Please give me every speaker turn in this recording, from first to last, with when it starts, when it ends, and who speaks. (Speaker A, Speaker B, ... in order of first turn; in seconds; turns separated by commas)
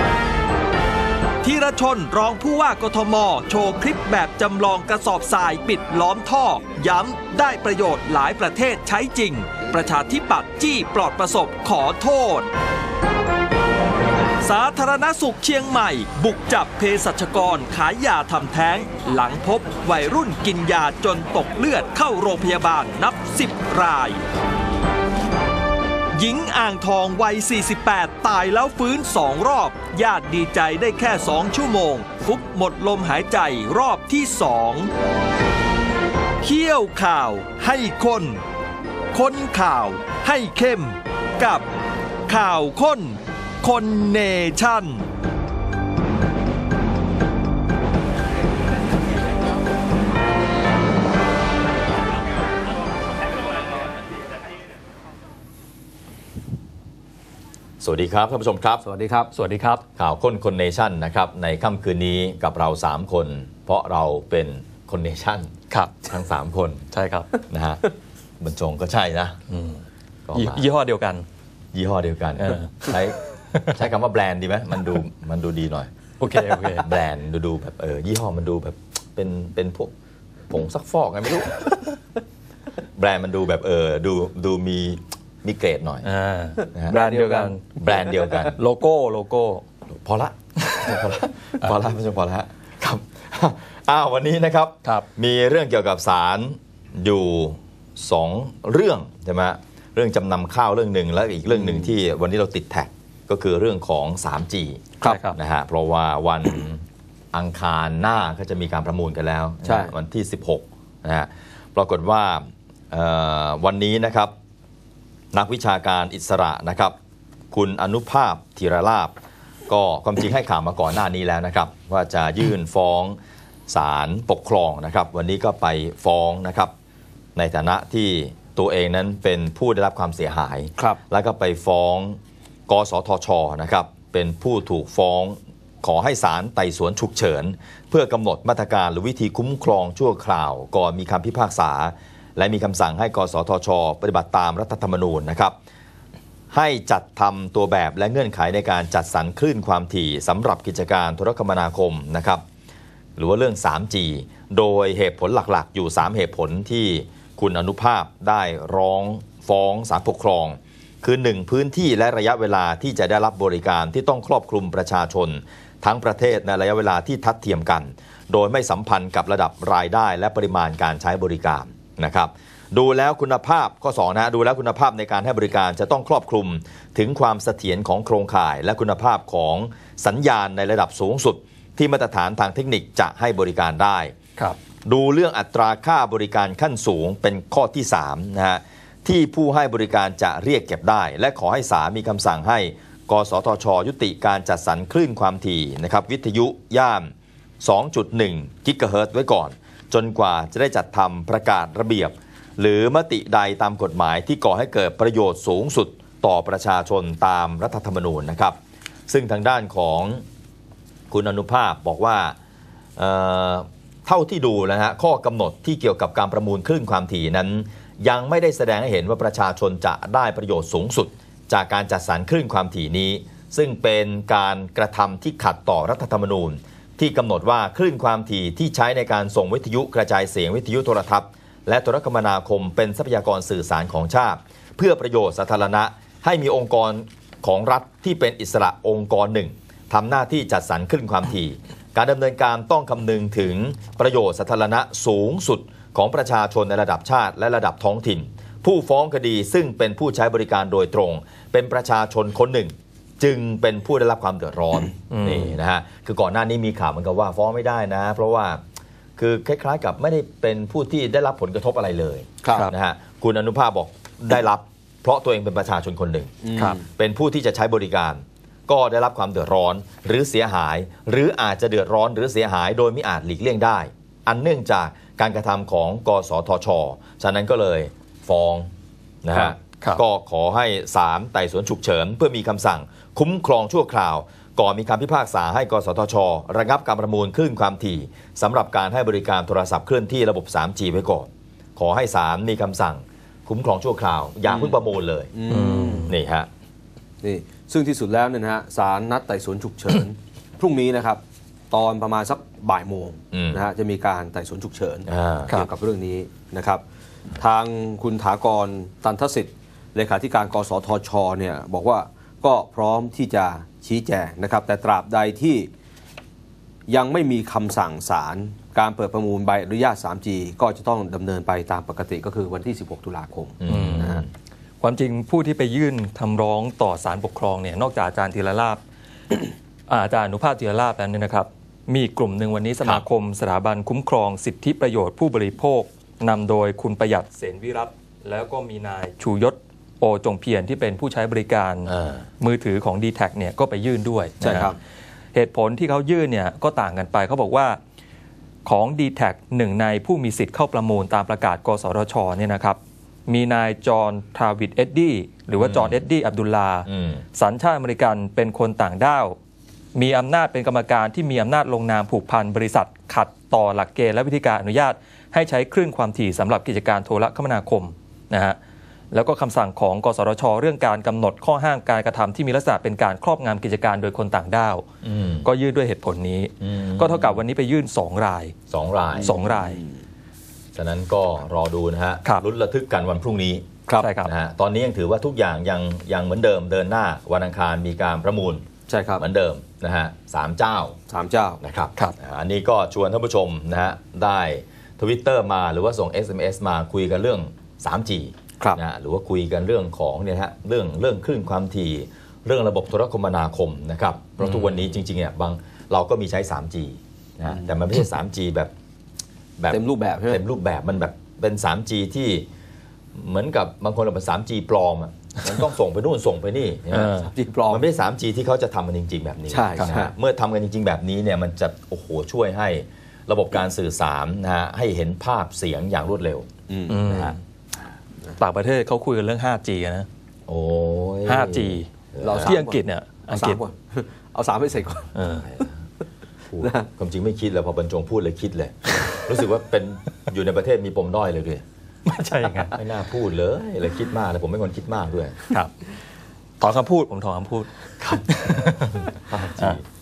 Speaker A: 1.4-12.4, Speaker B: 1.4-2.4, Speaker B: 3.6-7.3, Speaker B: 7.9-10.9, Speaker B: 11.4-12.5, Speaker B: 14.4-15.4, Speaker A: 14.4-24.2, Speaker B: 16.1-23.6, Speaker B: 26.2-26.9, Speaker A: 26.2-34.8, Speaker B: 27.9-29.1, Speaker B: 29.7-33.3, Speaker B: 34.0-34.9, Speaker B: 36.4-38.4, Speaker A: 36.4-38.3, Speaker B: 39.1-41.6, Speaker A: 39.1-40.9, Speaker A: 42.3-43.1, Speaker A: 43.6-44.8, Speaker B: 43.6-45.0, Speaker C: 57.8-58.8, Speaker D: 58.8-59.3, Speaker A: 59.3-59.8, Speaker C: 60.0-65.5, Speaker A: 65.7-66.1, Speaker C: 66.0-66.8, Speaker A: 66.9-67.3, Speaker C: 67.5-67.8, Speaker C: 68.4-69.4, Speaker A: 69.5-69.8, Speaker C: 70.3-70.7, Speaker A: 70.3-71.2, Speaker C: 71.7-75.9, Speaker A: 72.4-73.0, Speaker A: 76.2-76.9, Speaker C: 76.6-79.9, Speaker C: 80.5-81.8, Speaker C: 83.0-86.1, Speaker A: 86.0-89.6, Speaker C: 86.7-87.1, Speaker D: 86.9-87.5, Speaker C: 87.8-88.6, Speaker C: 89.9-114.3, Speaker A: 105.0-105.4, Speaker D: 109.6-109.9, Speaker C: 115.3-116.9, Speaker C: 117.5-119.1, Speaker C: 119.7-123.2, Speaker C: 123.7-126.7, Speaker C: 127.3-145.6, Speaker C: 146.5-152.4, Speaker C: 153.2-184.1, Speaker C: 184.8-208.6, Speaker C: 209.1-210.2, Speaker C: 211.1-212.3, Speaker C: 213.0-258.6, Speaker A: 255.1-255.6, Speaker C: 259.2-266.4, Speaker D: 262.4-262.7, Speaker D: 266.4-266.9, Speaker C: 266.9-278.7, Speaker C: 279.2-295.3, Speaker A: 279.3-280.0, Speaker D: 294.5-294.8, Speaker D: 295.3-296.1, Speaker A: 295.5-296.1, Speaker C: 296.1-296.5, Speaker D: 297.2-306.8, Speaker C: 303.3-303.6, Speaker C: 305.1-305.5, Speaker D: 307.4-315.7, Speaker D: 316.9-324.2, Speaker C: 323.6-324.3, Speaker A: 323.7-324.1, Speaker A: 324.8-328.8, Speaker A: 329.9-344.7, Speaker C: 341.9-342.2, Speaker C: 344.4-344.7, Speaker D: 344.4-344.8, Speaker A: 345.3-347.8, Speaker A: 348.6-359.4, Speaker C: 355.6-356.0, Speaker C: 356.9-357.2, Speaker A: 359.9-368.6, Speaker A: 369.1-374.9, Speaker C: 375.0-375.5, Speaker A: 375.4-378.5, Speaker C: 376.6-377.4, Speaker C: 378.7-379.4, Speaker D: 379.1-380.0, Speaker A: 379.2-379.8, Speaker C: 380.7-383.7, Speaker A: 383.9-384.3, Speaker C: 384.2-388.6, Speaker D: 388.9-389.2, Speaker C: 389.2-391.0, Speaker D: 391.1-391.6, Speaker C: 391.6-408.7, Speaker A: 404.4-404.7, Speaker C: 409.6-412.4, Speaker D: 409.7-410.4, Speaker C: 413.1-426.5, Speaker A: 416.9-417.3, Speaker D: 417.2-417.8, Speaker D: 419.5-420.1, Speaker D: 426.7-427.0, Speaker A: 426.9-427.4, Speaker C: 427.1-427.4, Speaker A: 428.4-430.1, Speaker C: 430.5-432.5, Speaker A: 431.2-433.6, Speaker D: 432.2-435.1, Speaker A: 435.1-435.5, Speaker C: 435.5-435.7, Speaker C: 436.5-441.6, Speaker D: 436.6-436.9, Speaker A: 442.1-442.7, Speaker C: 442.7-445.4, Speaker A: 446.6-449.8, Speaker C: 448.0-449.8